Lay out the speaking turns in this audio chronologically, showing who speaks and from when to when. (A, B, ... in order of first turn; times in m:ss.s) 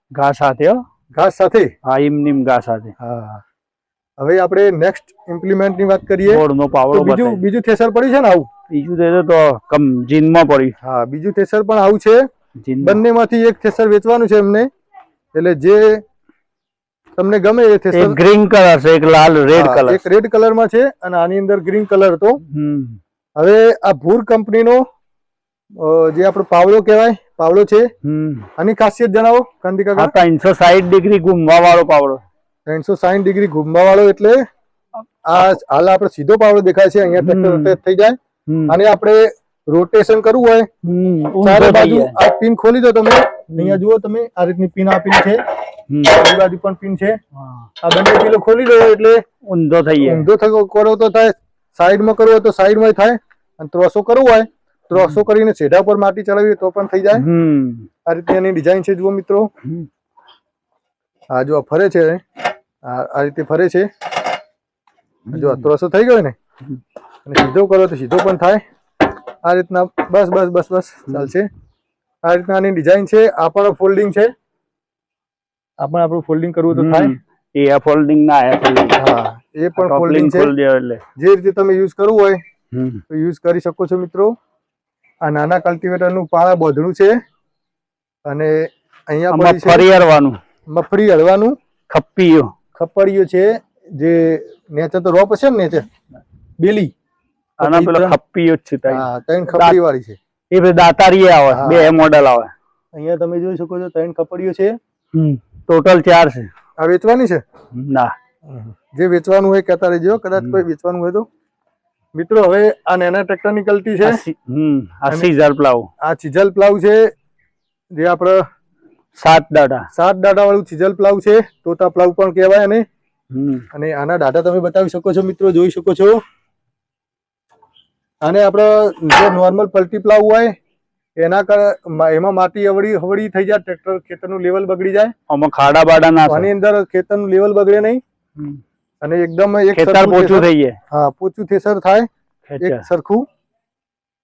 0:00.1-0:00.8 A
0:01.1-0:01.7 B
0:01.8-0:02.9 A
0:03.0-0:03.4 B
0:04.2-0:08.5 B
0:06.3-0:07.4 A
0:08.7-0:10.7 A
0:10.8-0:12.2 B
0:12.6-0:13.0 A
0:12.8-0:14.7 B
0:15.3-0:16.0 B
0:17.2-0:18.2 B
0:17.9-0:20.0 A
0:19.5-0:22.4 B
0:22.4-0:23.0 A
0:23.4-0:24.8 B
0:25.8-0:27.9 B
0:28.0-0:28.5 A
0:28.6-0:30.1 B
0:30.0-0:32.2 A
0:32.7-0:34.4 B
0:35.3-0:40.7 B
0:37.2-0:37.8 A
0:38.5-0:38.8 A
0:40.8-0:42.2 A
0:41.4-0:45.4 B
0:43.5-0:43.8 A
0:45.9-0:46.2 A
0:46.0-0:47.2 B
0:47.4-0:47.6 A
0:47.8-0:49.2 B
0:49.4-0:50.3 A
0:50.0-0:57.3 B
0:57.1-0:57.9 A
0:58.1-0:59.5 B
1:01.3-1:02.2 B
1:02.8-1:03.9 B
1:05.3-1:05.7 A
1:05.3-1:06.4 B
1:07.2-1:08.6 B
1:09.4-1:11.5 B
1:12.2-1:14.3 B
1:15.8-1:17.2 B
1:16.7-1:19.0 A
1:19.0-1:20.5 B
1:19.8-1:21.0 A
1:21.2-1:22.4 B
1:22.7-1:23.0 A
1:23.1-1:24.4 B
1:25.2-1:27.2 B
1:28.2-1:29.9 B
1:29.3-1:30.4 A
1:30.7-1:31.6 B
1:31.9-1:32.5 A
1:32.7-1:35.9 B
1:36.6-1:36.9 B
1:37.6-1:38.2 B
1:37.6-1:39.8 A
1:38.9-1:40.2 B
1:40.5-1:42.5 A
1:41.5-1:41.9 B
1:42.9-1:44.8 B
1:45.1-1:46.5 A
1:46.8-1:47.4 B
1:47.7-1:48.1 A
1:48.4-1:51.3 B
1:52.1-1:54.2 B
1:54.0-1:55.9 A
1:56.0-1:57.1 B
1:57.9-1:58.4 B
1:59.1-1:59.9 A
1:59.9-2:02.8 B
2:03.3-2:03.6 A
2:03.7-2:06.2 B
2:08.2-2:10.5 B
2:11.2-2:15.1 B
2:15.3-2:16.5 A
2:16.3-2:18.0 B
2:19.0-2:22.1 B
2:19.7-2:20.8 A
2:22.5-2:22.9 A
2:22.6-2:23.2 B